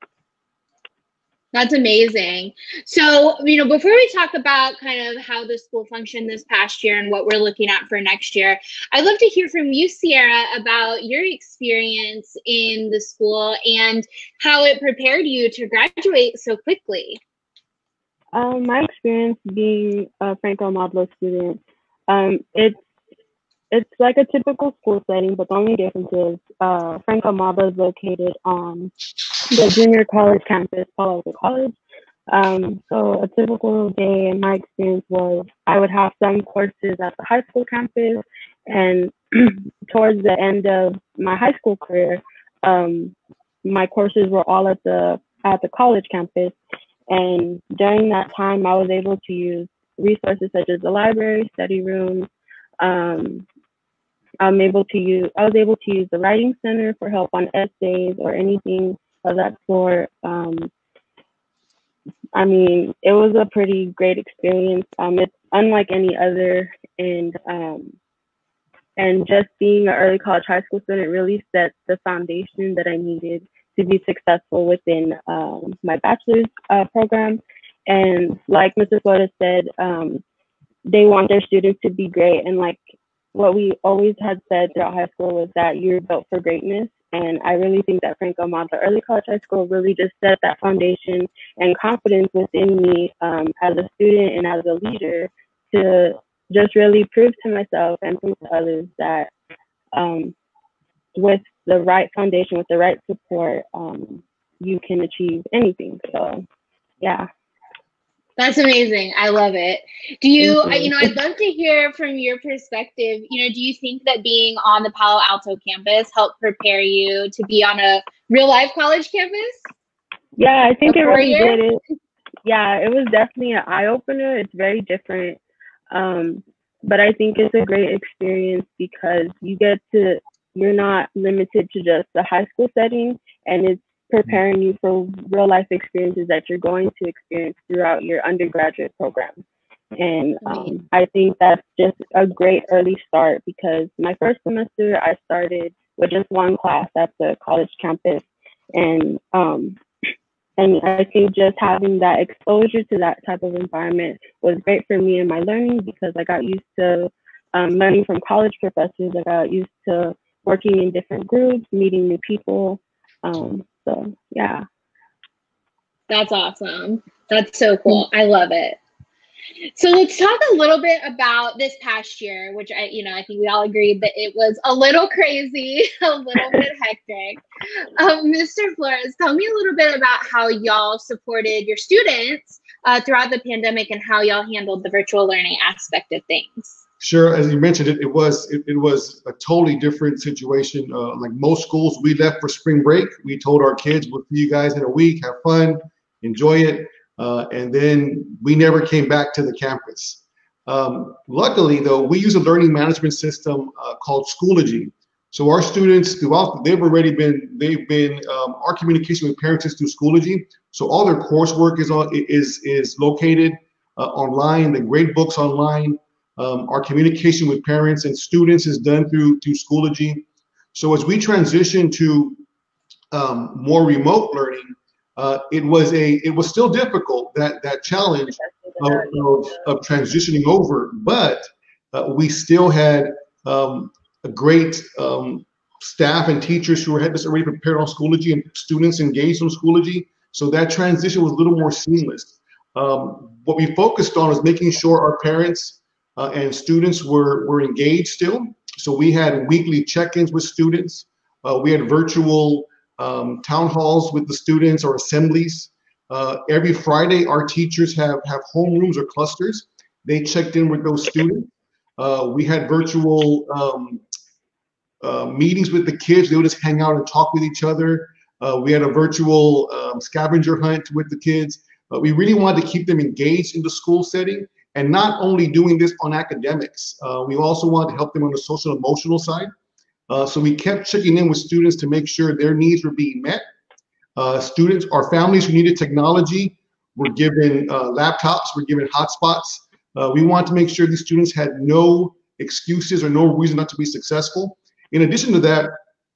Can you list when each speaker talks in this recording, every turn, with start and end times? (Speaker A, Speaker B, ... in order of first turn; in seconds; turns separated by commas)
Speaker A: 1.5-17.2, Speaker B: 18.3-22.8, Speaker B: 23.7-28.9, Speaker B: 29.5-31.8, Speaker B: 32.3-46.5, Speaker B: 47.1-52.3, Speaker B: 52.8-53.5, Speaker B: 54.4-60.7, Speaker B: 62.3-68.0, Speaker B: 69.0-80.2, Speaker B: 80.8-82.8, Speaker B: 83.3-99.3, Speaker B: 99.9-100.3, Speaker B: 101.1-106.5, Speaker B: 107.0-107.3, Speaker A: 108.4-119.7, Speaker B: 110.4-111.1, Speaker B: 120.4-121.8, Speaker A: 120.9-121.6, Speaker B: 122.5-125.4, Speaker B: 125.9-139.4, Speaker B: 140.0-149.8, Speaker A: 140.5-140.7, Speaker B: 150.6-164.6, Speaker A: 166.1-168.8, Speaker A: 169.8-177.4, Speaker A: 178.0-186.8, Speaker C: 187.0-222.4, Speaker C: 223.1-264.0, Speaker B: 228.4-229.4, Speaker C: 265.0-279.5, Speaker C: 280.1-283.4, Speaker C: 284.2-295.7